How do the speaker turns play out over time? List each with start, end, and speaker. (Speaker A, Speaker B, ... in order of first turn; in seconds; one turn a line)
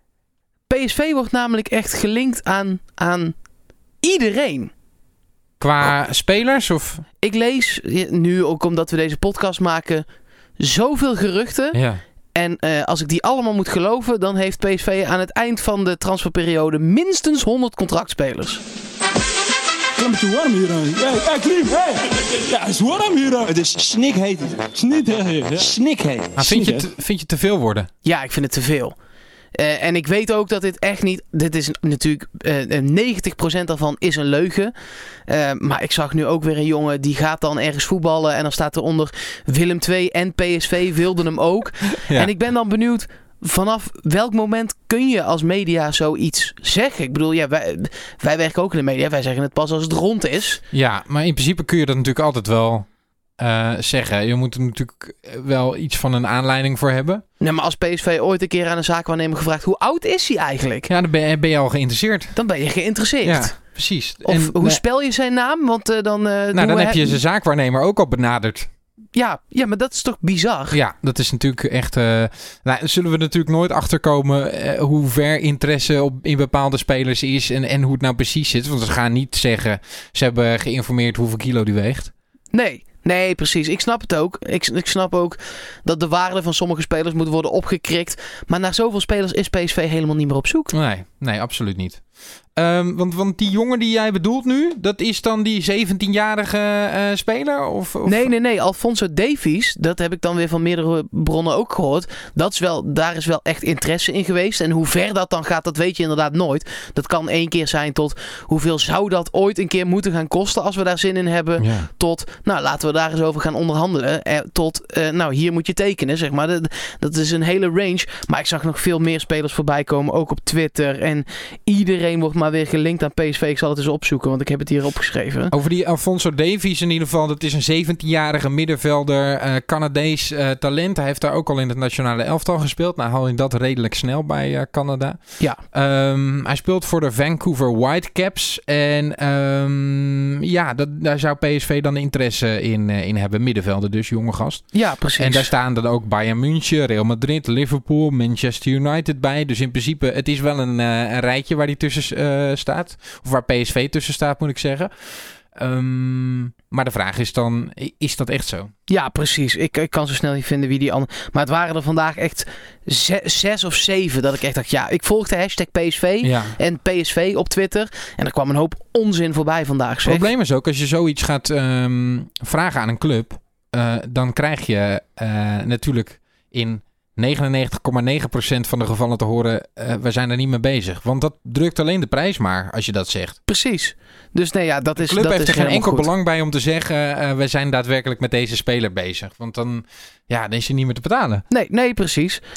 Speaker A: 0.7-3.4
Speaker A: 4.0-4.7
Speaker B: 5.6-7.0
Speaker A: 7.2-10.1
Speaker A: 10.6-11.8
Speaker B: 11.7-12.0
Speaker A: 12.3-18.6
Speaker C: 20.0-26.8
Speaker B: 26.4-27.9
Speaker A: 28.0-28.9
Speaker A: 29.6-34.7
Speaker A: 35.3-50.6
Speaker B: 42.0-42.3
Speaker B: 50.7-52.9
Speaker B: 53.4-57.2
Speaker A: 57.4-60.9
Speaker B: 60.9-62.4
Speaker A: 62.3-63.5
Speaker B: 63.2-64.8
Speaker A: 64.2-67.2
Speaker B: 66.5-68.7
Speaker A: 69.1-70.8
Speaker B: 70.7-82.1
Speaker A: 82.5-90.7
Speaker B: 90.7-92.0
Speaker B: 92.6-98.3
Speaker A: 98.0-125.5
Speaker B: 111.6-111.9
Speaker B: 125.5-158.7
Speaker A: 144.7-145.5
Speaker A: 158.9-170.3
Speaker B: 166.2-166.6
Speaker B: 170.0-183.4
Speaker A: 183.5-186.1
Speaker B: 185.0-191.4
Speaker A: 191.5-192.4